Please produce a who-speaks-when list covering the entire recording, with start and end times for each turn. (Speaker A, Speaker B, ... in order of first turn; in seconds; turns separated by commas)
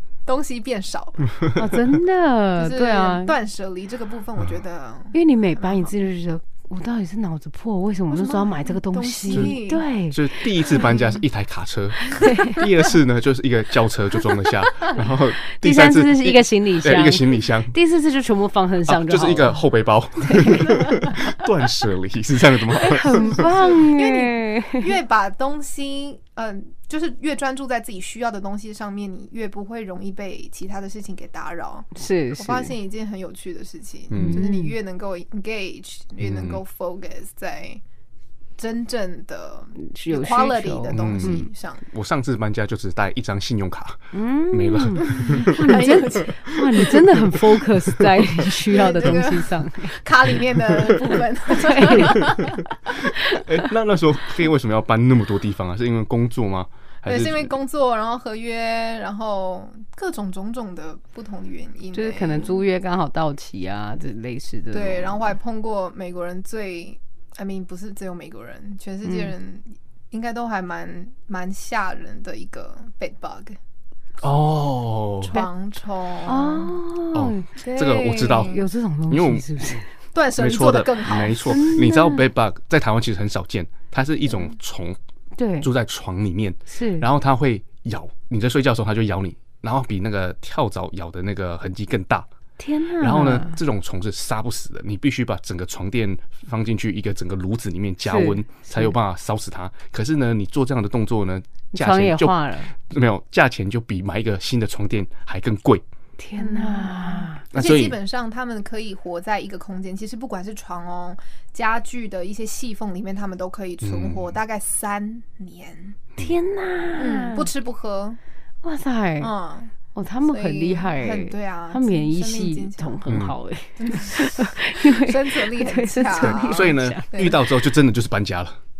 Speaker A: 0.2-1.4, Speaker B: 1.6-3.3, Speaker A: 2.6-5.8, Speaker B: 5.1-10.2, Speaker A: 8.1-9.9, Speaker C: 9.3-9.6, Speaker C: 10.1-17.7, Speaker A: 10.8-11.0, Speaker B: 12.1-12.6, Speaker B: 15.5-19.6, Speaker C: 18.9-23.4, Speaker B: 20.2-20.9, Speaker B: 22.8-24.9, Speaker A: 23.1-37.8, Speaker B: 31.9-32.7, Speaker C: 34.1-34.4, Speaker B: 34.1-34.7, Speaker C: 36.2-36.6, Speaker A: 38.6-41.8, Speaker B: 39.9-41.5, Speaker C: 40.9-45.6, Speaker B: 44.1-50.0, Speaker A: 45.0-46.9, Speaker C: 46.7-47.0, Speaker A: 48.7-52.5, Speaker B: 51.5-52.5, Speaker C: 52.1-57.5, Speaker A: 57.0-62.6, Speaker B: 61.9-65.3, Speaker A: 64.7-73.6, Speaker B: 69.0-69.3, Speaker C: 74.2-75.3, Speaker A: 75.2-76.8, Speaker B: 76.2-79.9, Speaker C: 77.1-79.8, Speaker A: 78.1-78.6, Speaker A: 80.1-81.5, Speaker C: 80.3-85.0, Speaker B: 81.5-82.3, Speaker B: 85.4-85.7, Speaker C: 85.6-92.3, Speaker B: 86.7-87.1, Speaker B: 92.6-93.6, Speaker C: 93.0-105.8, Speaker B: 98.0-98.9, Speaker B: 101.7-102.7, Speaker B: 106.2-107.4, Speaker A: 106.4-116.0, Speaker C: 107.5-108.0, Speaker C: 113.8-114.3, Speaker B: 116.2-117.5, Speaker A: 117.0-118.2, Speaker B: 118.6-119.3, Speaker A: 119.2-119.7, Speaker B: 119.9-127.1, Speaker A: 120.3-123.0, Speaker C: 123.0-123.3, Speaker A: 123.8-127.4, Speaker C: 126.2-128.6